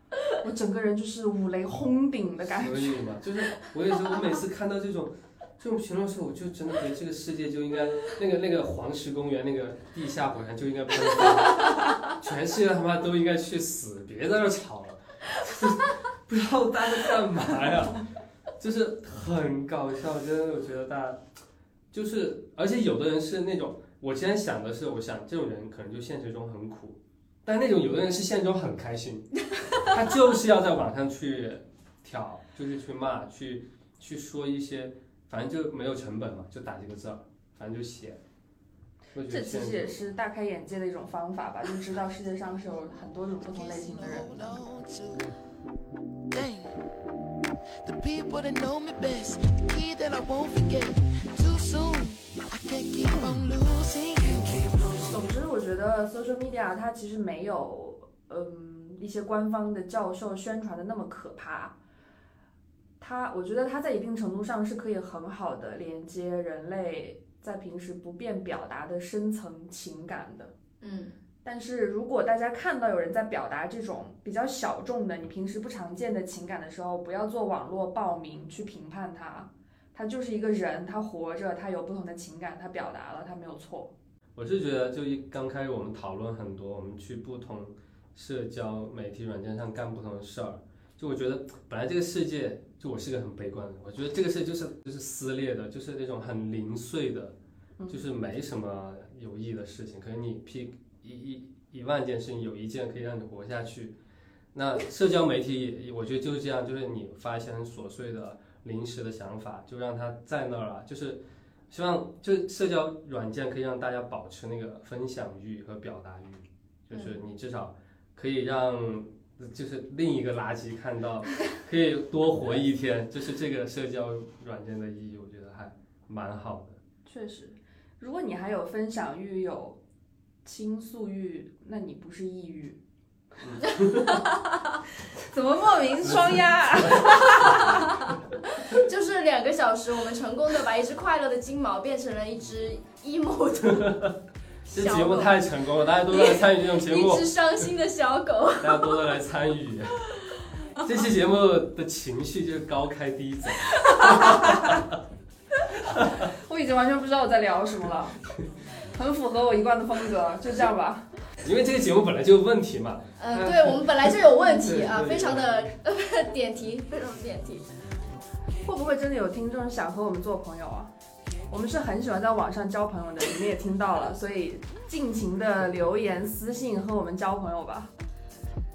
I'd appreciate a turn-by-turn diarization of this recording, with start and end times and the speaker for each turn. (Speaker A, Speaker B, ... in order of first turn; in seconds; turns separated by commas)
Speaker A: 0.4-3.0, Speaker B: 2.4-18.1, Speaker B: 18.6-21.2, Speaker B: 21.9-38.2, Speaker B: 39.1-40.0, Speaker A: 39.3-44.6, Speaker C: 43.4-45.3, Speaker C: 46.3-46.8, Speaker C: 47.8-55.2, Speaker A: 54.8-61.8, Speaker A: 63.0-70.5, Speaker D: 70.8-71.2, Speaker A: 71.4-83.9, Speaker B: 84.3-97.4, Speaker B: 97.9-104.0, Speaker B: 104.5-126.8, Speaker D: 116.9-117.2, Speaker A: 127.0-129.8, Speaker A: 130.4-132.8, Speaker B: 133.4-134.2, Speaker A: 135.2-137.8, Speaker B: 136.0-137.7, Speaker D: 137.2-144.0, Speaker B: 143.7-144.1, Speaker D: 144.7-145.4, Speaker B: 144.7-147.3, Speaker D: 146.1-149.0, Speaker B: 148.6-150.1, Speaker B: 150.8-155.0, Speaker A: 153.7-154.8, Speaker A: 155.8-158.2, Speaker B: 156.0-156.3, Speaker A: 158.9-161.1, Speaker B: 161.4-165.7, Speaker D: 163.2-167.7, Speaker A: 168.6-170.9, Speaker A: 171.5-177.9